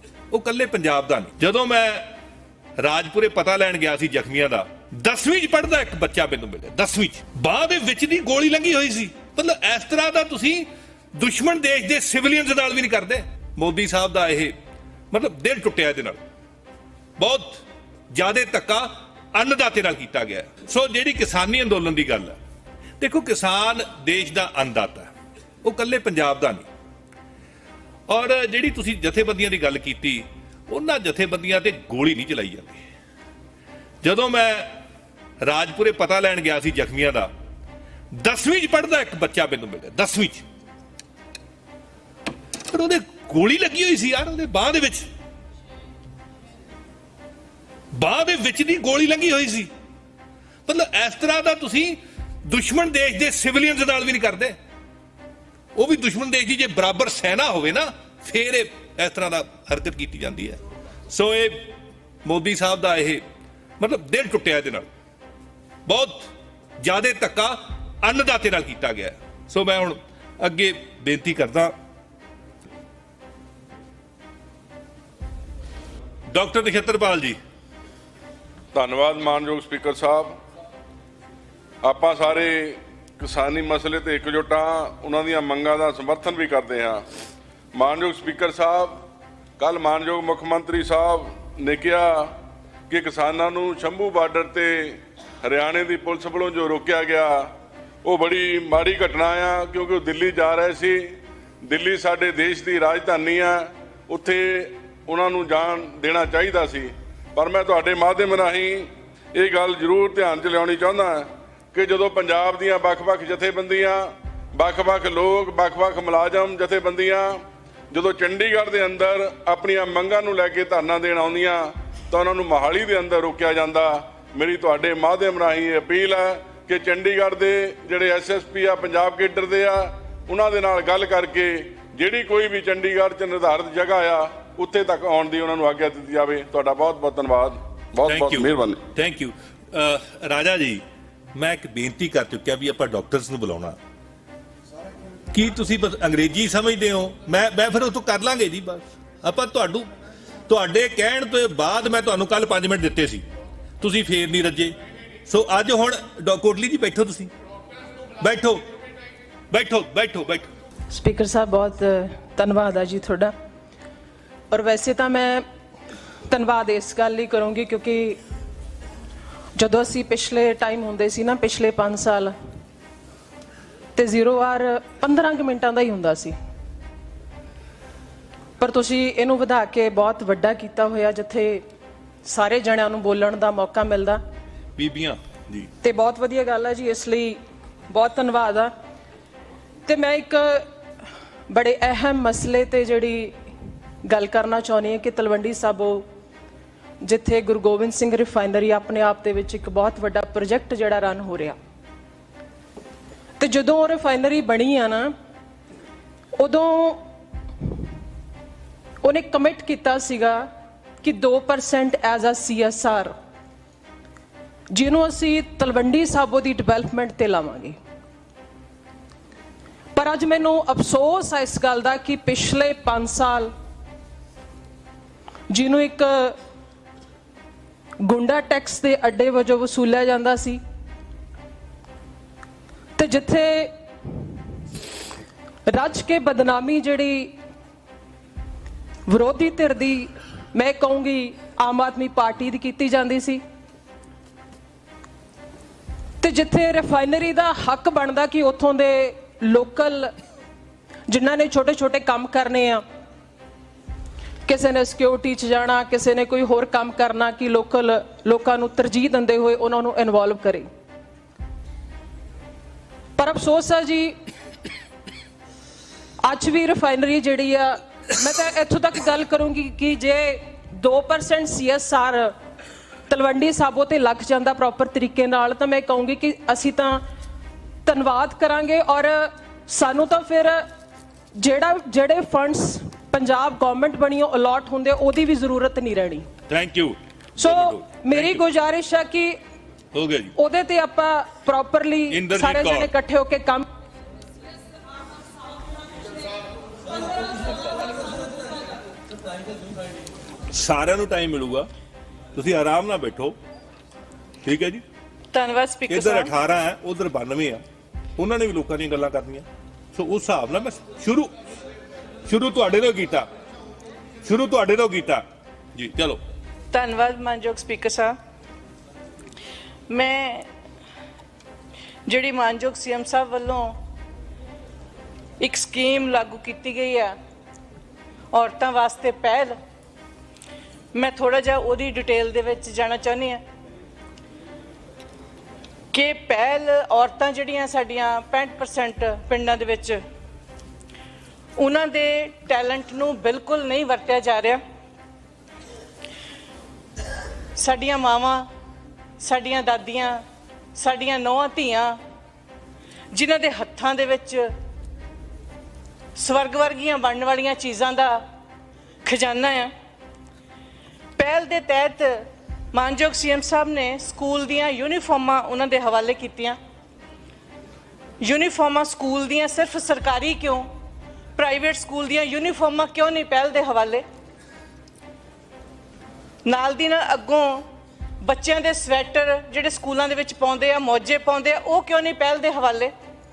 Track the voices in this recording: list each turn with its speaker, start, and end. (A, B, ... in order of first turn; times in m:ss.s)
0:00.3-0:02.1 A
0:02.8-0:14.5 A
0:15.1-0:16.2 A
0:17.2-0:22.4 A
0:23.0-0:25.1 A
0:25.6-0:26.7 A
0:28.1-0:32.8 A
0:34.0-0:34.7 A
0:35.4-0:37.3 A
0:38.1-0:40.4 A
0:42.7-0:45.1 A
0:47.9-0:49.7 A
0:50.7-0:54.6 A
0:55.8-1:00.6 A
1:01.1-1:01.7 A
1:02.2-1:03.2 A
1:03.8-1:04.9 A
1:05.9-1:06.3 A
1:06.8-1:11.7 A
1:16.3-1:17.4 A
1:18.7-1:20.4 B
1:21.8-1:27.0 B
1:27.7-1:29.0 B
1:29.6-1:32.3 B
1:32.9-1:37.5 B
1:38.0-2:18.8 B
2:18.0-2:20.8 A
2:21.3-2:23.8 A
2:25.3-2:29.9 A
2:30.5-2:33.2 A
2:33.8-2:34.8 A
2:35.3-2:37.3 A
2:38.2-2:38.6 A
2:39.5-2:40.5 A
2:40.9-2:43.3 C
2:44.5-2:45.4 C
2:46.3-2:48.2 C
2:49.6-2:52.3 C
2:54.0-2:56.4 C
2:58.6-3:01.6 C
3:02.2-3:04.2 C
3:04.8-3:05.7 A
3:05.8-3:07.4 C
3:07.9-3:08.7 C
3:09.9-3:10.7 C
3:11.5-3:13.4 C
3:14.0-3:16.0 C
3:17.0-3:21.6 C
3:23.4-3:25.1 C
3:26.4-3:27.0 C
3:29.0-3:30.5 C
3:31.0-3:33.1 C
3:34.7-3:37.8 C
3:40.0-3:43.5 C
3:45.5-3:46.4 C
3:48.0-3:50.6 C
3:53.0-3:53.7 C
3:55.7-3:57.4 C
3:59.1-4:03.4 C
4:06.2-4:10.1 C
4:11.1-4:12.8 C
4:14.5-4:20.7 C
4:23.2-4:24.2 C
4:26.2-4:32.3 C
4:33.1-4:37.0 C
4:37.8-4:40.6 C
4:41.4-4:46.3 C
4:46.5-4:48.4 A
4:47.4-4:49.4 C
4:49.9-4:50.3 A
4:50.4-4:53.6 C
4:52.1-4:52.9 A
5:00.5-5:01.7 A
5:02.4-5:03.4 A
5:04.4-5:04.8 A
5:05.3-5:06.3 D
5:05.9-5:07.6 A
5:08.2-5:11.3 A
5:12.3-5:13.3 A
5:14.2-5:15.2 A
5:15.8-5:16.2 A
5:16.7-5:18.2 D
5:19.9-5:20.5 D
5:22.1-5:23.8 D
5:25.4-5:27.2 D
5:28.3-5:29.6 D
5:30.9-5:33.4 D
5:35.9-5:40.0 D
5:41.6-5:44.6 D
5:47.6-5:48.5 D
5:49.2-5:50.2 D
5:50.8-5:52.0 D
5:53.1-5:54.5 D
5:56.2-5:58.2 D
5:59.0-5:59.7 D
6:01.2-6:02.1 D
6:02.7-6:06.6 D
6:08.2-6:10.7 D
6:11.4-6:14.0 D
6:16.4-6:17.7 D
6:18.2-6:22.9 D